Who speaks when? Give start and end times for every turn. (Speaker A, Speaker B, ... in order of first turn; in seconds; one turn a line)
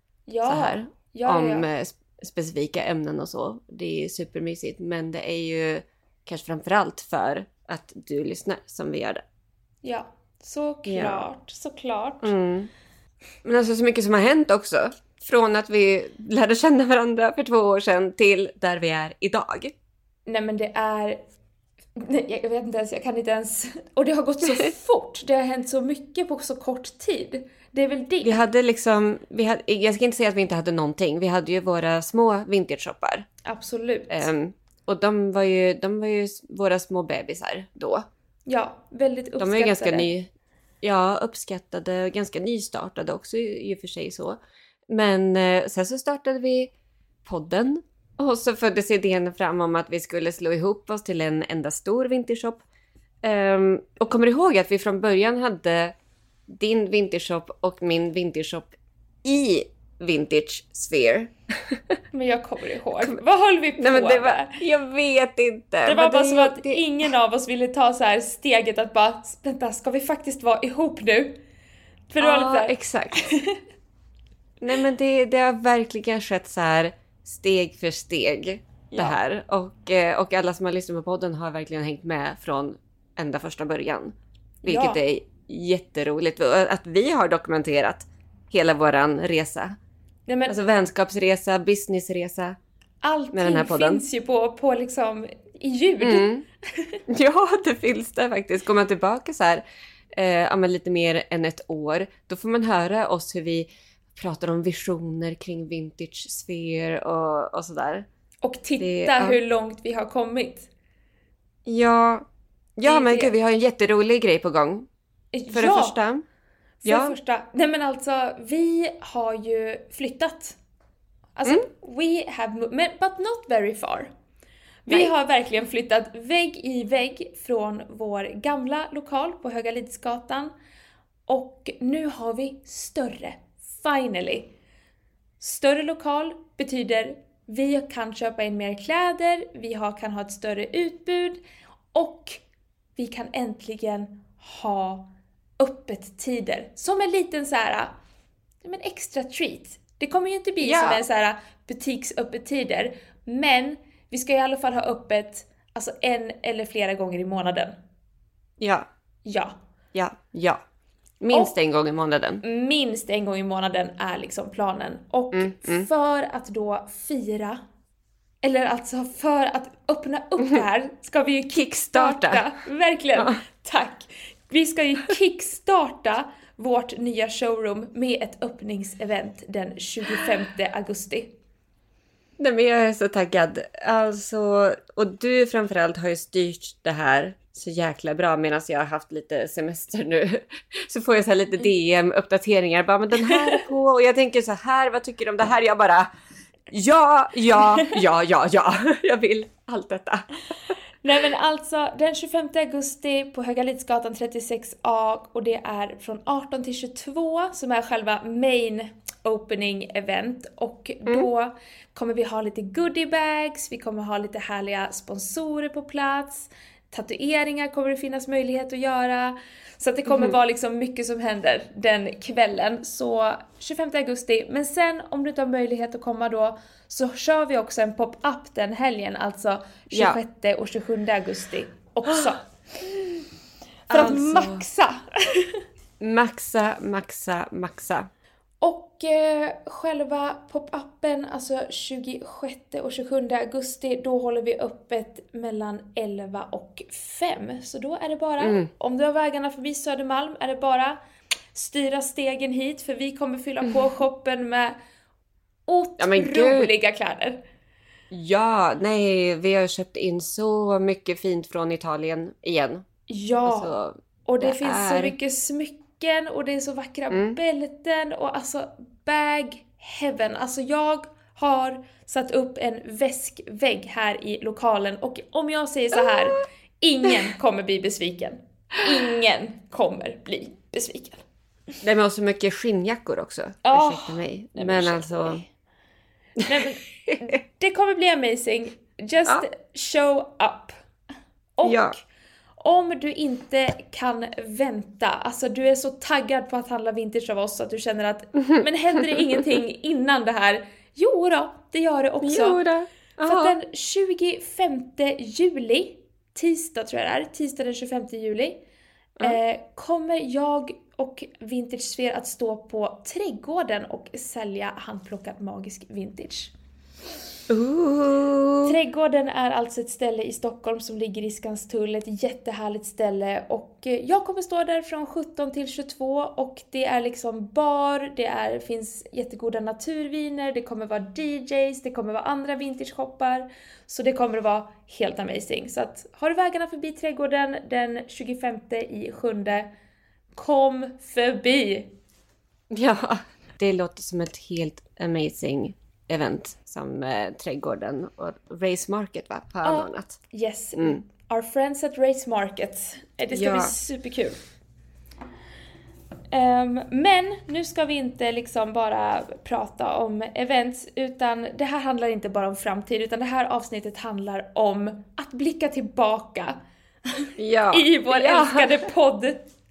Speaker A: 0.3-1.7
Speaker B: 0.5-9.2
Speaker A: 9.8-12.3
Speaker B: 10.9-11.3
Speaker B: 12.2-12.7
Speaker B: 13.4-19.7
Speaker A: 20.3-21.2
Speaker A: 22.0-28.4
Speaker B: 28.2-33.3
Speaker A: 33.4-34.3
Speaker B: 34.1-38.1
Speaker A: 38.5-40.1
Speaker B: 39.4-40.3
Speaker B: 40.8-46.7
Speaker B: 47.2-52.6
Speaker B: 53.2-55.9
Speaker B: 56.5-58.7
Speaker B: 59.2-61.8
Speaker A: 62.1-64.6
Speaker B: 63.8-66.9
Speaker A: 65.8-71.4
Speaker A: 72.1-73.6
Speaker B: 72.2-73.4
Speaker B: 74.6-89.8
Speaker A: 78.9-79.2
Speaker A: 84.6-85.0
Speaker A: 90.3-90.6
Speaker B: 90.5-92.6
Speaker A: 93.0-97.0
Speaker B: 93.3-94.0
Speaker B: 96.0-96.5
Speaker B: 97.1-99.6
Speaker B: 100.1-108.1
Speaker A: 108.4-110.7
Speaker B: 108.8-109.4
Speaker B: 111.7-112.2
Speaker B: 112.8-114.9
Speaker A: 112.8-113.3
Speaker A: 115.3-116.0
Speaker B: 115.5-116.2
Speaker A: 116.8-120.6
Speaker B: 116.8-117.2
Speaker A: 121.4-124.1
Speaker A: 124.9-130.5
Speaker A: 131.3-134.5
Speaker A: 135.4-141.4
Speaker A: 141.9-142.4
Speaker A: 143.0-147.9
Speaker A: 148.6-157.8
Speaker B: 150.6-151.0
Speaker B: 158.6-158.9
Speaker A: 159.2-159.6
Speaker B: 159.9-160.6
Speaker B: 161.2-162.4
Speaker A: 162.4-167.6
Speaker B: 165.3-165.9
Speaker A: 168.4-181.3
Speaker B: 171.5-172.5
Speaker B: 182.4-196.1
Speaker A: 193.3-193.6
Speaker B: 196.7-200.3
Speaker A: 201.0-232.4
Speaker B: 229.9-230.2
Speaker A: 233.9-235.6
Speaker B: 233.9-234.6
Speaker B: 236.0-238.1
Speaker A: 238.6-251.0
Speaker B: 248.4-248.7
Speaker A: 251.5-254.8
Speaker A: 255.7-257.4
Speaker B: 256.0-256.7
Speaker B: 258.1-262.9
Speaker A: 263.1-263.7
Speaker B: 263.4-265.1
Speaker A: 264.2-281.2
Speaker B: 267.1-267.4
Speaker B: 281.8-285.4
Speaker A: 283.6-285.5
Speaker B: 286.4-287.2
Speaker A: 286.5-290.8
Speaker A: 291.6-292.0
Speaker B: 291.6-292.0
Speaker A: 292.6-302.6
Speaker B: 298.4-299.4
Speaker B: 302.2-303.6
Speaker A: 303.2-308.6
Speaker A: 309.2-316.5
Speaker B: 317.5-318.8
Speaker A: 318.6-339.7
Speaker A: 340.4-341.9
Speaker B: 342.7-350.2
Speaker A: 349.6-354.4
Speaker B: 353.3-353.7
Speaker A: 356.3-366.6
Speaker A: 367.1-369.5
Speaker B: 367.4-368.8